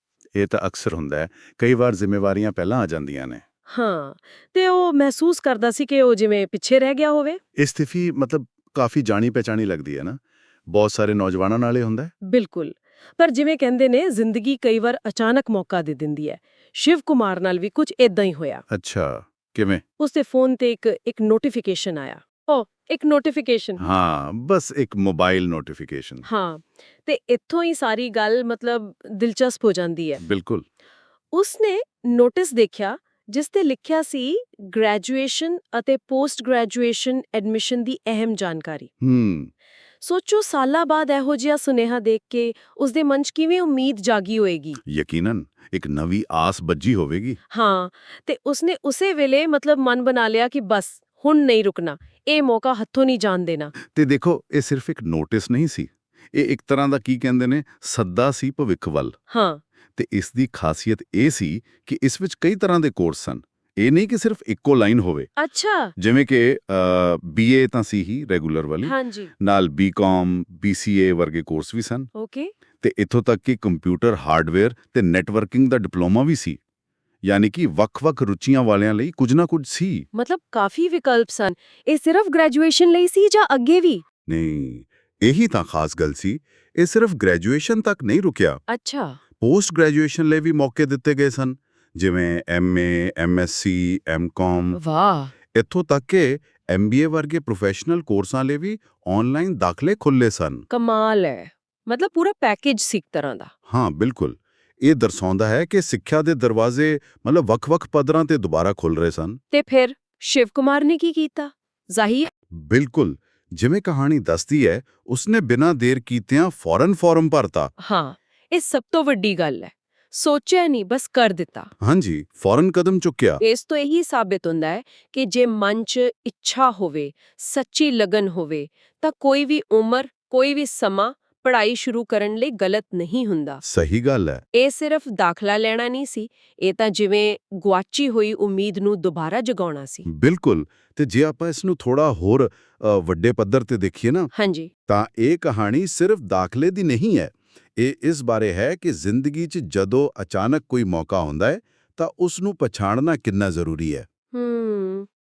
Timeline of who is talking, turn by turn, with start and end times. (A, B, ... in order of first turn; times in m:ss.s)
0:00.3-0:03.4 A
0:03.7-0:07.4 B
0:07.6-0:12.1 A
0:12.2-0:18.6 B
0:18.7-0:19.8 A
0:20.0-0:23.8 B
0:23.8-0:26.2 A
0:26.2-0:30.2 B
0:30.2-0:30.6 A
0:31.3-0:38.9 B
0:39.0-0:39.5 A
0:40.0-0:44.8 B
0:44.8-0:47.4 A
0:47.5-0:53.7 B
0:53.8-0:59.2 A
0:59.3-0:59.6 B
0:59.9-1:05.3 A
1:05.4-1:05.9 B
1:06.0-1:12.1 A
1:08.8-1:09.3 B
1:12.1-1:12.5 B
1:12.8-1:16.6 A
1:17.2-1:20.0 A
1:20.1-1:24.0 B
1:24.3-1:28.6 A
1:28.7-1:29.2 B
1:29.4-1:34.8 A
1:34.7-1:35.3 B
1:35.5-1:40.6 A
1:40.7-1:43.5 B
1:43.7-1:49.4 A
1:49.5-1:52.3 B
1:52.5-1:57.7 A
1:57.8-2:01.7 B
2:01.8-2:03.4 A
2:03.4-2:13.6 B
2:13.6-2:14.4 A
2:14.5-2:20.1 B
2:20.1-2:24.3 A
2:24.3-2:24.7 B
2:24.9-2:34.0 A
2:34.3-2:35.1 B